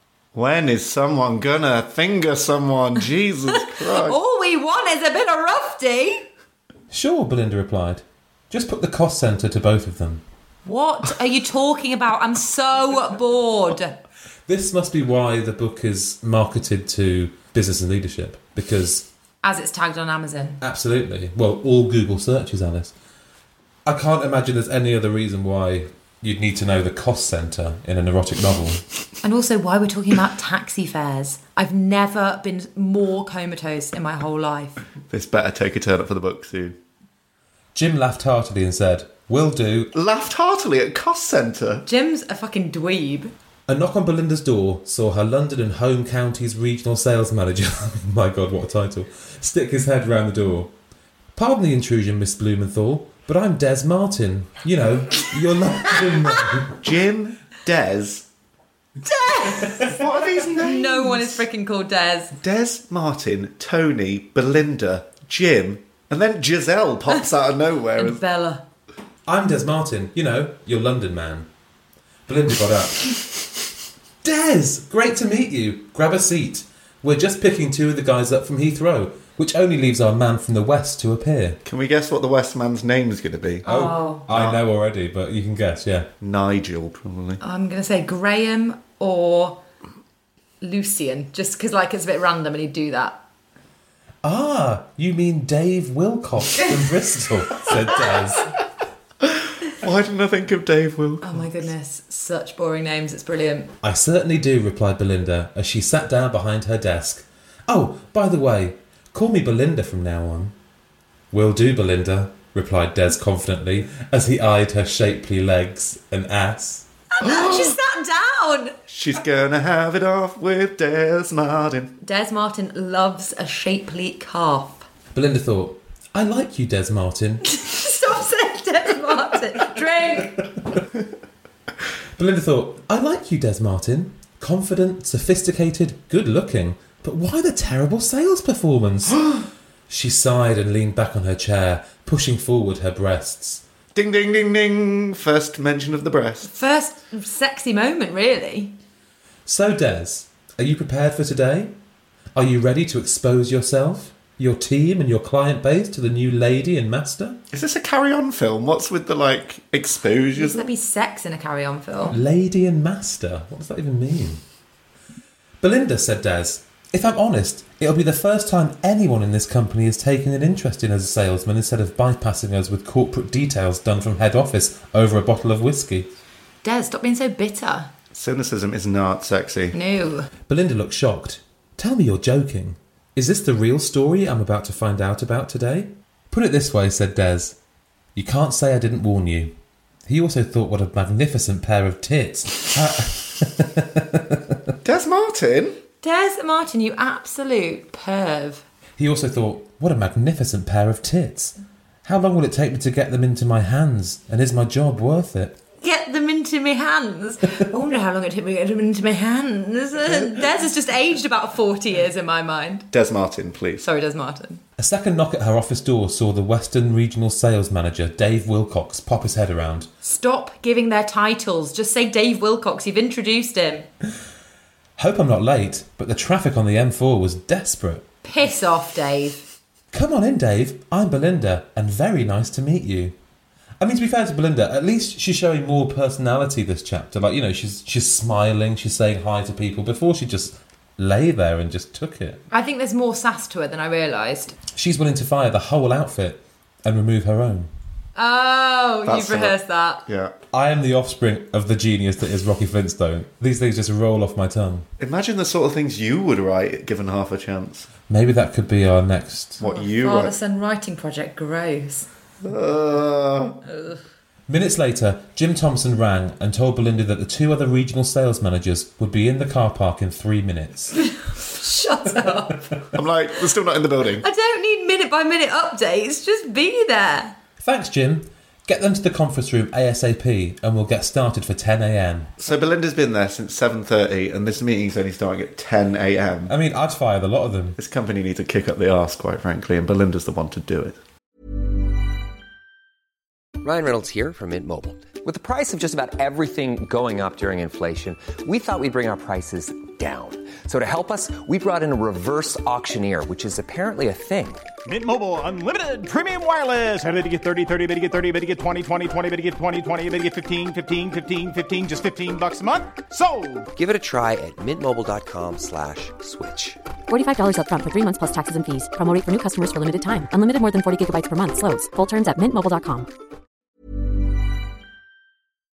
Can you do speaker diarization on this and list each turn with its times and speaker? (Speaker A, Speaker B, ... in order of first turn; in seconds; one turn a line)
Speaker A: 0.3-4.2
Speaker B: 3.5-6.3
Speaker C: 6.9-10.2
Speaker B: 10.7-13.9
Speaker C: 14.5-19.1
Speaker B: 19.4-20.6
Speaker C: 20.6-22.9
Speaker C: 23.9-28.8
Speaker B: 29.2-34.8
Speaker A: 35.1-36.8
Speaker C: 37.7-39.9
Speaker A: 39.9-41.8
Speaker B: 41.9-43.3
Speaker C: 43.7-50.7
Speaker C: 51.4-56.8
Speaker A: 56.8-58.2
Speaker B: 59.0-60.0
Speaker A: 59.9-61.4
Speaker B: 60.5-62.3
Speaker A: 62.4-68.2
Speaker B: 68.0-68.6
Speaker C: 69.2-71.5
Speaker C: 72.3-73.6
Speaker C: 74.2-81.6
Speaker A: 81.6-83.7
Speaker B: 83.6-84.2
Speaker C: 83.7-86.1
Speaker A: 84.3-84.6
Speaker A: 86.2-87.4
Speaker B: 87.4-89.6
Speaker B: 90.6-93.2
Speaker C: 94.2-98.5
Speaker A: 99.2-101.5
Speaker B: 101.2-103.7
Speaker C: 103.8-110.5
Speaker C: 111.3-116.9
Speaker B: 117.1-118.7
Speaker A: 117.2-117.8
Speaker A: 118.9-121.9
Speaker B: 122.0-124.9
Speaker C: 125.1-127.5
Speaker B: 127.5-130.4
Speaker C: 132.2-139.3
Speaker C: 139.9-143.6
Speaker A: 143.9-146.5
Speaker B: 146.4-148.8
Speaker C: 149.4-151.7
Speaker C: 152.3-157.4
Speaker A: 157.5-160.7
Speaker B: 160.3-162.2
Speaker C: 162.1-164.4
Speaker C: 165.6-176.1
Speaker B: 176.6-177.9
Speaker A: 178.1-179.7
Speaker B: 179.7-180.3
Speaker C: 180.5-187.6
Speaker C: 188.1-189.5
Speaker C: 190.1-194.6
Speaker A: 194.8-195.8
Speaker B: 196.0-198.6
Speaker C: 199.0-205.6
Speaker B: 205.8-212.9
Speaker A: 212.9-213.8
Speaker B: 213.8-214.6
Speaker C: 214.8-219.9
Speaker B: 220.0-223.9
Speaker C: 225.0-228.1
Speaker B: 228.2-229.4
Speaker C: 229.9-233.2
Speaker C: 233.8-242.4
Speaker B: 242.5-244.5
Speaker C: 244.7-247.7
Speaker B: 248.2-250.0
Speaker A: 249.0-249.5
Speaker A: 250.1-250.3
Speaker C: 250.5-254.9
Speaker A: 255.0-257.9
Speaker C: 258.1-259.6
Speaker A: 259.6-260.3
Speaker B: 259.6-262.1
Speaker A: 262.4-263.6
Speaker B: 263.6-264.0
Speaker C: 264.5-271.0
Speaker B: 271.0-272.7
Speaker A: 272.9-274.2
Speaker B: 274.2-277.3
Speaker C: 277.6-282.3
Speaker A: 282.4-286.5
Speaker C: 286.5-287.8
Speaker A: 287.8-291.0
Speaker D: 293.6-304.7
Speaker E: 304.9-313.7
Speaker D: 313.7-316.8
Speaker F: 317.1-323.1